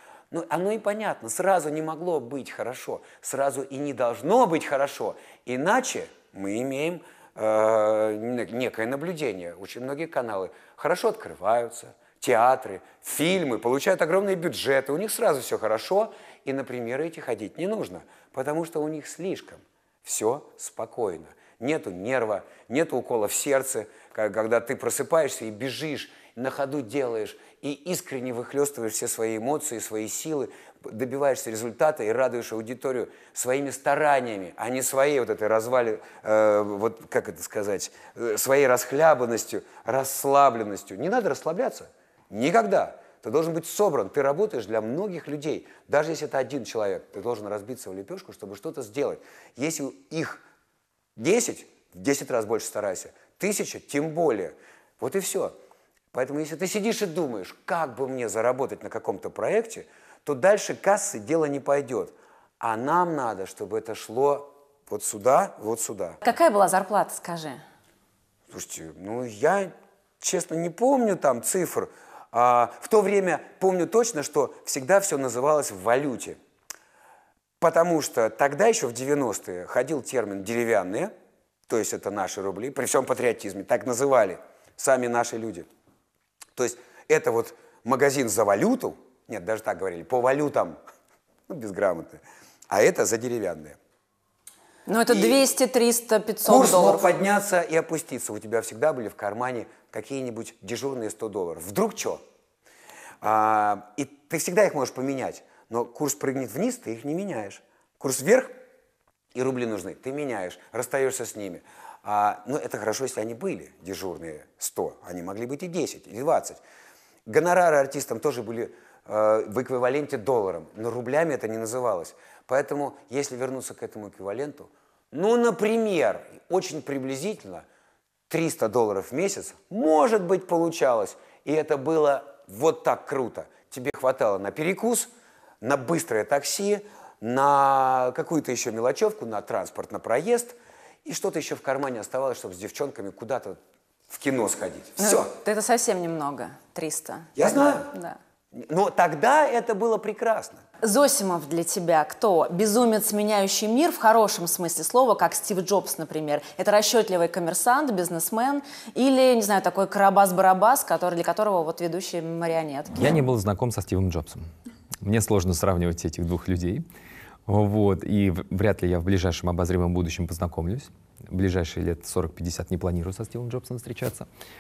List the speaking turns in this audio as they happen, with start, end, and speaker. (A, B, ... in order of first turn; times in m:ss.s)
0:00.3-0:50.4 A
0:51.2-0:55.6 A
0:56.1-1:06.2 A
1:06.2-1:07.6 B
1:08.5-1:16.4 A
1:17.6-1:21.1 A
1:21.7-1:25.7 A
1:26.6-1:30.8 A
1:31.5-1:33.8 A
1:34.9-1:37.1 B
1:35.1-1:35.4 A
1:36.5-1:42.2 A
1:43.2-1:48.5 A
1:49.3-1:56.6 A
1:57.3-2:07.6 A
2:08.3-2:15.1 A
2:15.6-2:23.6 A
2:24.1-2:25.3 A
2:25.0-2:28.2 B
2:27.4-2:27.9 A
2:28.6-2:30.6 A
2:30.8-2:43.0 B
2:43.0-2:44.5 C
2:45.0-2:46.9 C
2:47.5-2:54.3 C